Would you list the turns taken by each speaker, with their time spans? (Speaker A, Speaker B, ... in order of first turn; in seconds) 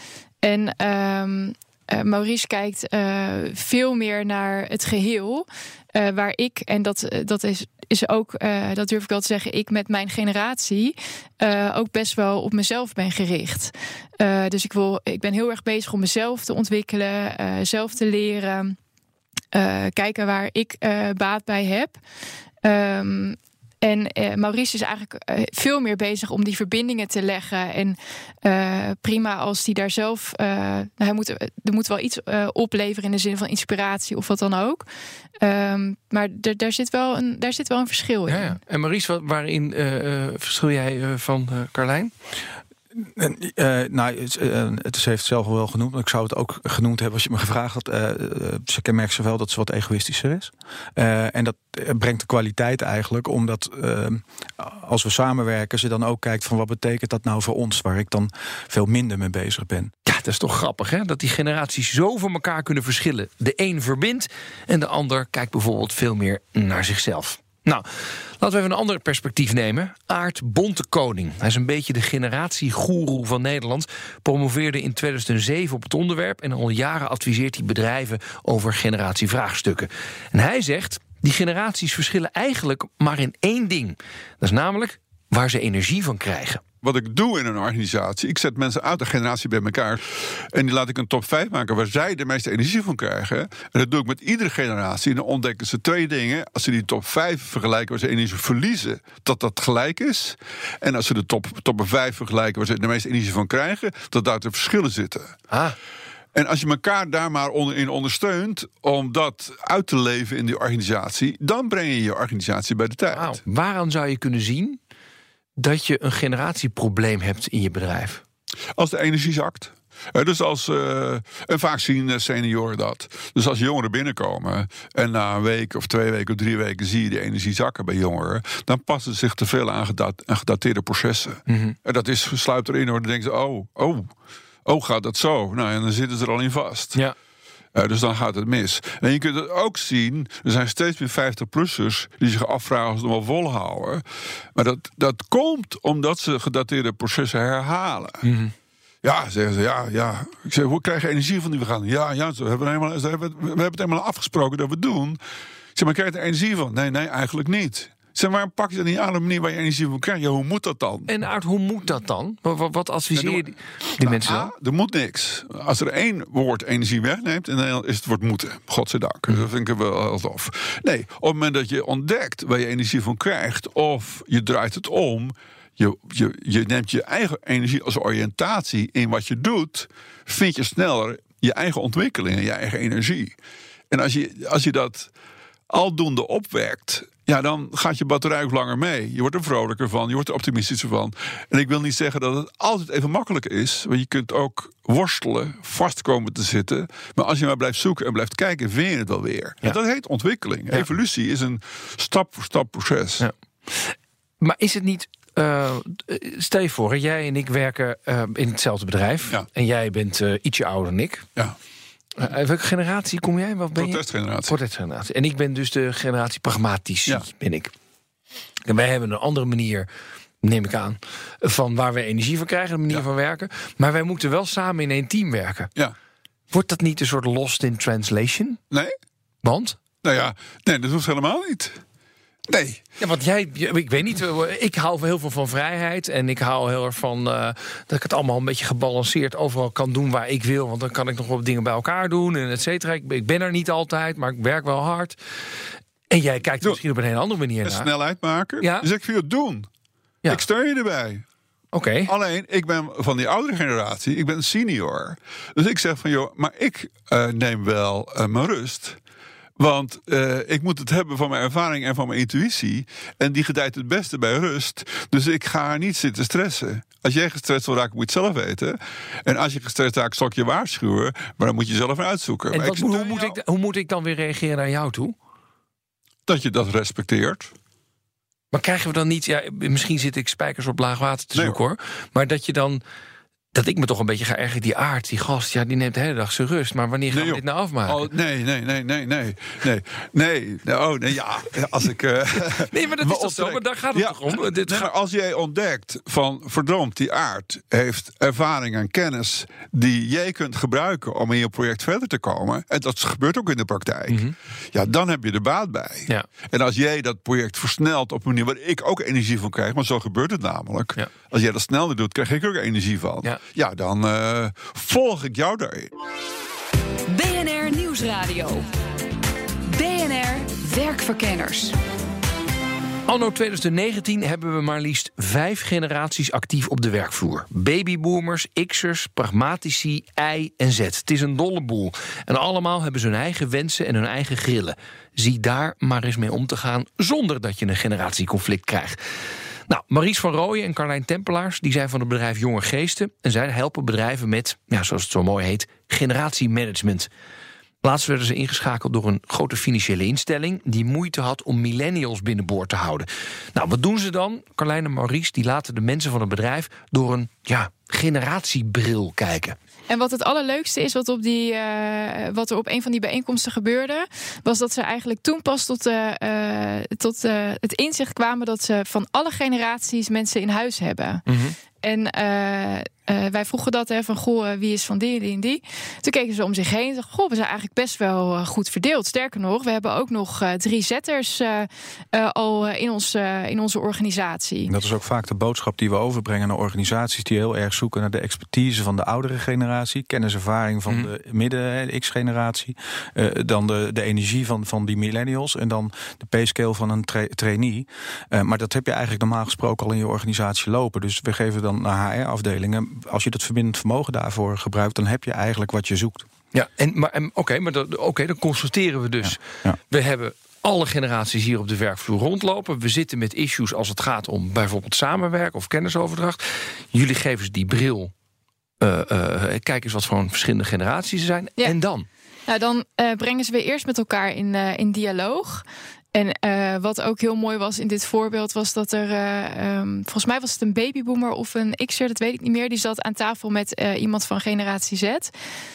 Speaker A: 0.4-18.8, 19.5-22.0, 22.6-34.9, 35.4-38.6, 359.9-371.2, 371.8-384.7, 422.5-435.3
Speaker B: 38.3-42.1, 60.0-86.6, 113.1-114.8, 115.6-118.2, 131.5-131.7, 148.2-148.5, 161.1-164.5, 203.2-211.3, 212.2-217.7, 218.6-219.9, 220.4-225.7, 226.5-228.6, 229.4-229.8, 233.0-245.2, 246.1-247.9, 248.6-248.9, 251.7-252.1, 272.5-275.1, 278.5-282.8, 283.5-288.1, 292.6-294.9, 304.1-304.3, 323.1-339.0, 339.7-347.1, 347.8-359.6, 371.3-371.5, 406.5-418.1, 418.8-422.1
Speaker C: 43.0-59.9, 384.7-406.3, 409.2-409.8
Speaker D: 86.8-105.3, 106.3-113.4, 118.8-134.1, 134.6-137.0, 137.7-144.0, 144.5-148.2, 149.0-155.2, 155.7-161.1, 163.1-183.4, 183.9-185.1, 185.7-203.3, 213.8-214.6, 230.0-231.8, 232.5-232.8, 247.6-249.7, 250.3-251.2, 252.0-259.0, 259.6-273.4, 276.3-277.5, 281.3-281.6, 287.1-315.9
Speaker E: 317.1-318.7, 319.7-321.8